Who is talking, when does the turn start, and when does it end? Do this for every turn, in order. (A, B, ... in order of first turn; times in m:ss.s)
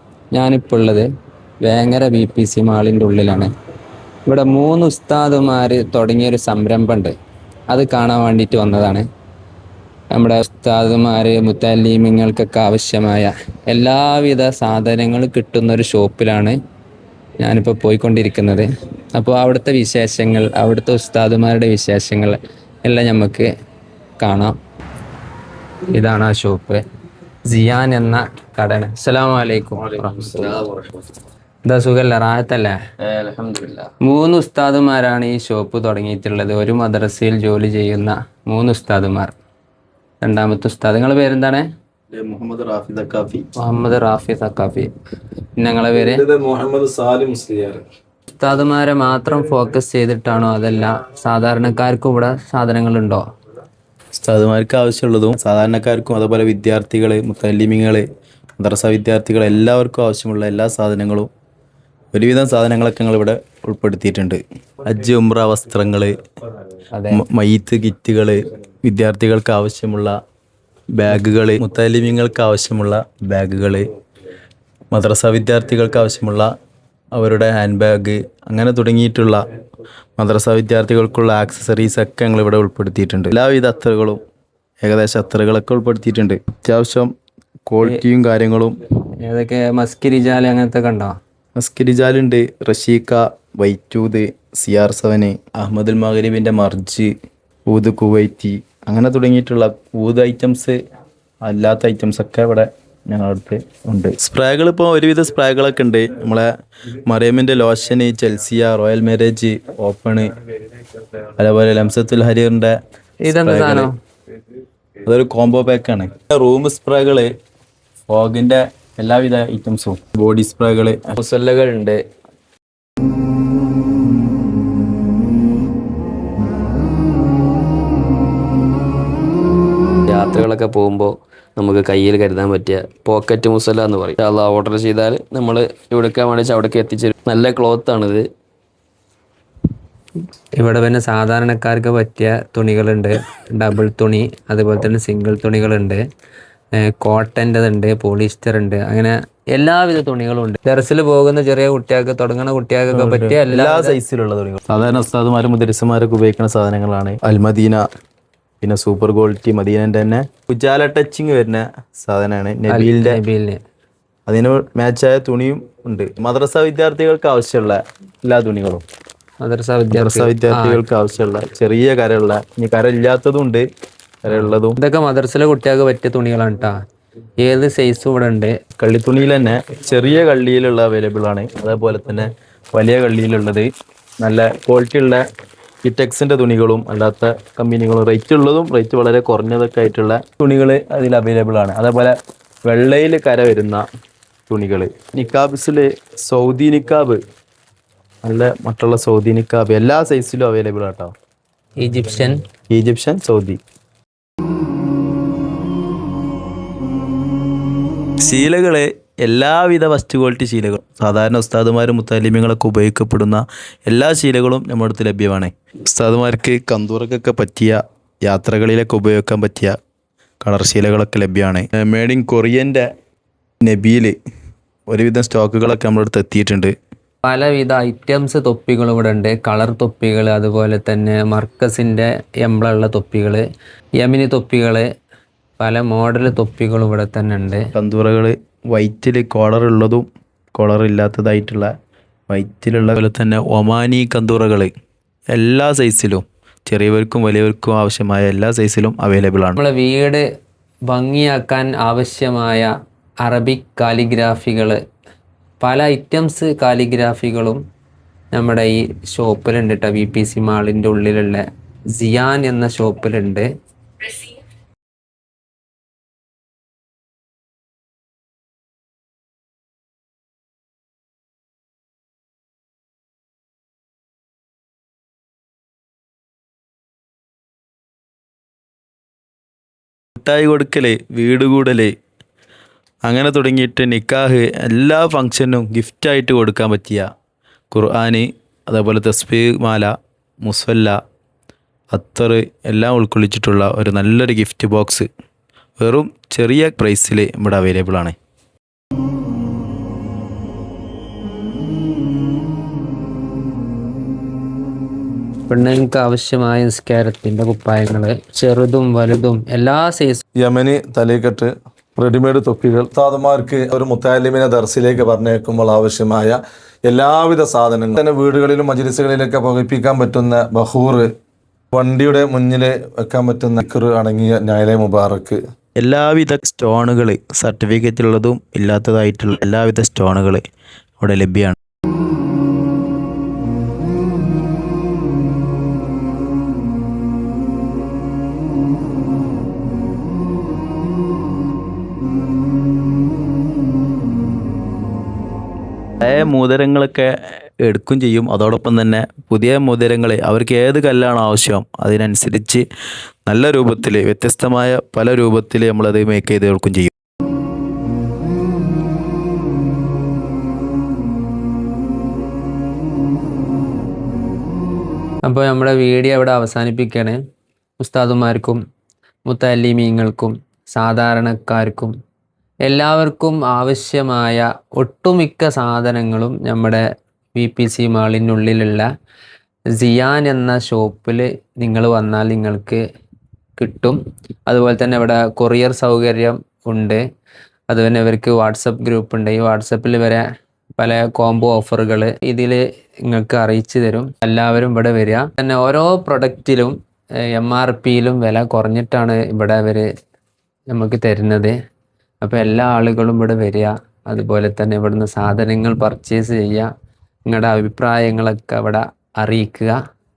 0:00.3-0:01.1 A
0:01.6-0:03.5 A
0:04.3-0:07.1 A
0:07.7-0:09.0 A
0:10.1-0:16.6 A
0:17.4-0:23.5 A
0:24.2-0:24.6 A
0:25.9-0:26.8 A
0:27.5-0:30.7 A
0:30.2-0:30.7 B
0:31.6-0:32.8 A
0:33.1-0:33.8 B
0:34.0-0:39.3 A
0:40.2-0:41.7 A
0:42.1-0:43.4 C
0:43.6-0:44.9 A
0:45.6-0:46.2 A
0:46.2-0:47.8 C
0:48.3-0:53.2 A
0:54.1-0:58.0 C
0:58.6-1:01.3 C
1:02.1-1:06.2 C
1:06.9-1:07.2 A
1:07.1-1:10.2 C
1:10.9-1:13.9 C
1:14.9-1:16.5 C
1:17.1-1:19.4 C
1:20.2-1:24.2 C
1:24.8-1:27.1 C
1:27.7-1:28.8 C
1:29.2-1:31.2 A
1:31.6-1:37.1 C
1:37.7-1:40.8 C
1:41.4-1:46.5 C
1:47.0-1:50.3 C
1:51.3-1:52.8 C
1:53.2-1:53.9 A
1:53.3-1:53.9 C
1:55.0-1:57.3 C
1:58.1-2:02.0 C
2:10.1-2:18.3 B
2:20.6-2:26.0 A
2:26.8-2:34.0 A
2:32.9-2:37.8 C
2:38.6-2:43.2 C
2:42.7-2:43.6 A
2:44.3-2:48.8 C
2:49.4-2:50.8 A
2:49.9-2:53.6 C
2:54.2-2:54.8 C
2:54.8-2:56.8 A
2:57.4-2:58.5 A
2:58.8-3:03.7 C
3:04.2-3:05.2 C
3:05.8-3:13.8 C
3:14.5-3:17.2 C
3:18.2-3:21.1 C
3:21.8-3:22.4 A
3:22.7-3:23.6 C
3:28.2-3:39.8 C
3:40.4-3:42.9 C
3:43.6-3:44.2 C
3:44.9-3:46.7 C
3:47.2-3:53.4 A
3:54.0-3:54.9 A
3:55.6-3:57.7 A
3:57.8-4:01.7 C
4:02.3-4:04.7 C
4:05.3-4:09.6 C
4:09.6-4:10.2 A
4:10.9-4:12.7 A
4:13.2-4:14.8 A
4:15.6-4:17.6 A
4:18.3-4:23.4 A
4:40.2-4:41.9 C
4:43.0-4:47.1 C
4:47.7-4:51.0 C
4:51.9-4:55.1 C
4:55.8-4:58.2 C
5:05.5-5:10.2 A
5:10.4-5:21.1 D
5:21.7-5:25.4 D
5:25.8-5:30.4 C
5:31.0-5:31.6 C
5:46.0-5:52.6 C
5:53.3-5:56.9 C
6:05.3-6:07.2 A
6:07.8-6:08.6 A
6:09.3-6:11.9 A
6:12.6-6:18.9 A
6:19.8-6:22.8 A
6:23.6-6:27.0 A
6:27.7-6:30.2 A
6:30.8-6:36.8 A
6:37.3-6:39.9 A
6:40.7-6:41.6 A
6:42.2-6:46.7 A
6:47.3-6:49.8 A